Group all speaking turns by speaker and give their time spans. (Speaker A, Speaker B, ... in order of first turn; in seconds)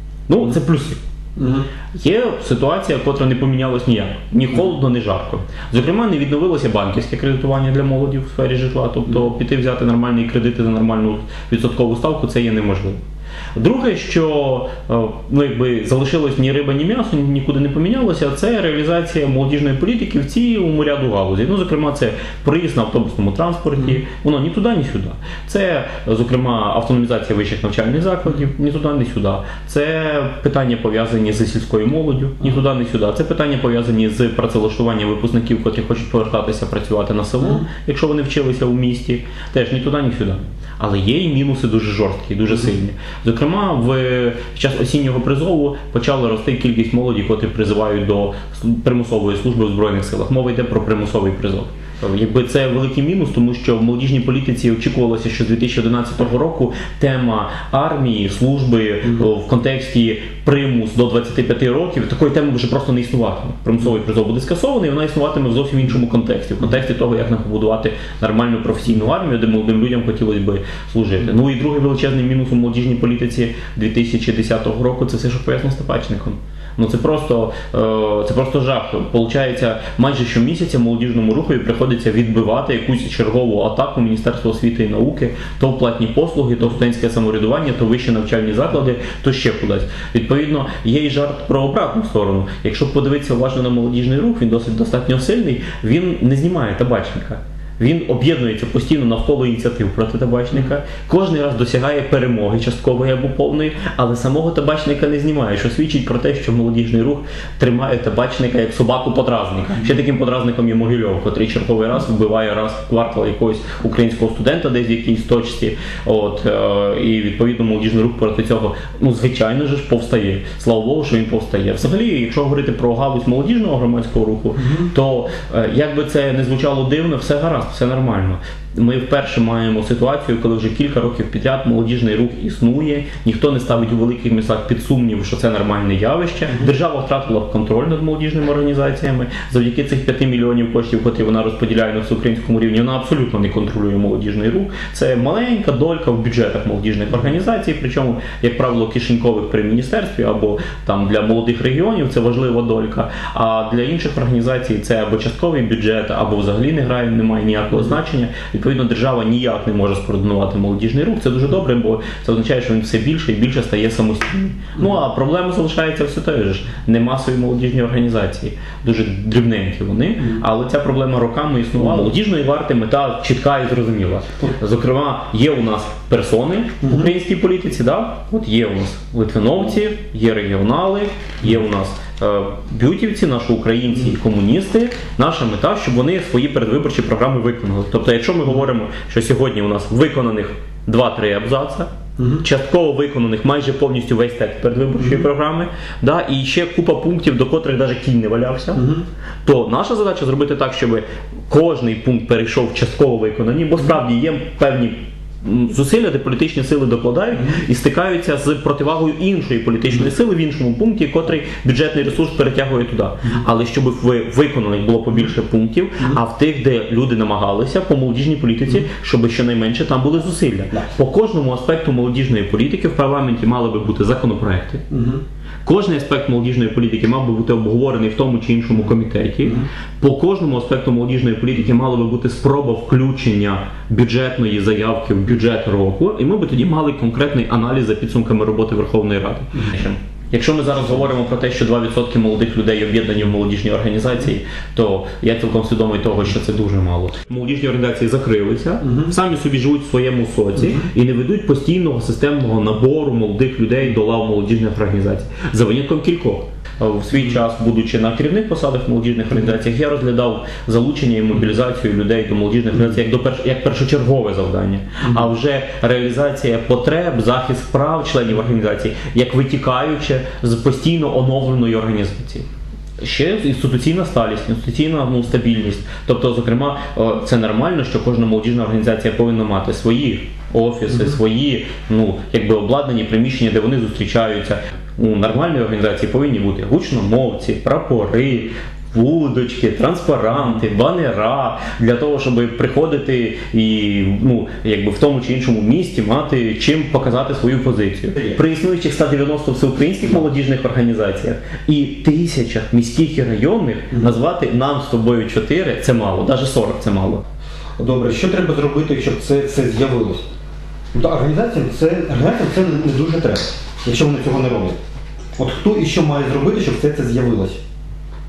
Speaker A: 0.3-1.0, 1.9-13.0, 13.6-191.9, 192.4-198.9, 199.4-224.8, 225.6-272.4, 273.0-307.2
Speaker B: 1.4-1.7, 124.6-124.9, 171.8-172.0, 176.8-177.1, 192.2-192.4, 195.0-195.2, 198.7-199.0, 224.9-225.2, 248.8-249.1, 307.8-310.3, 310.9-314.8, 315.4-317.6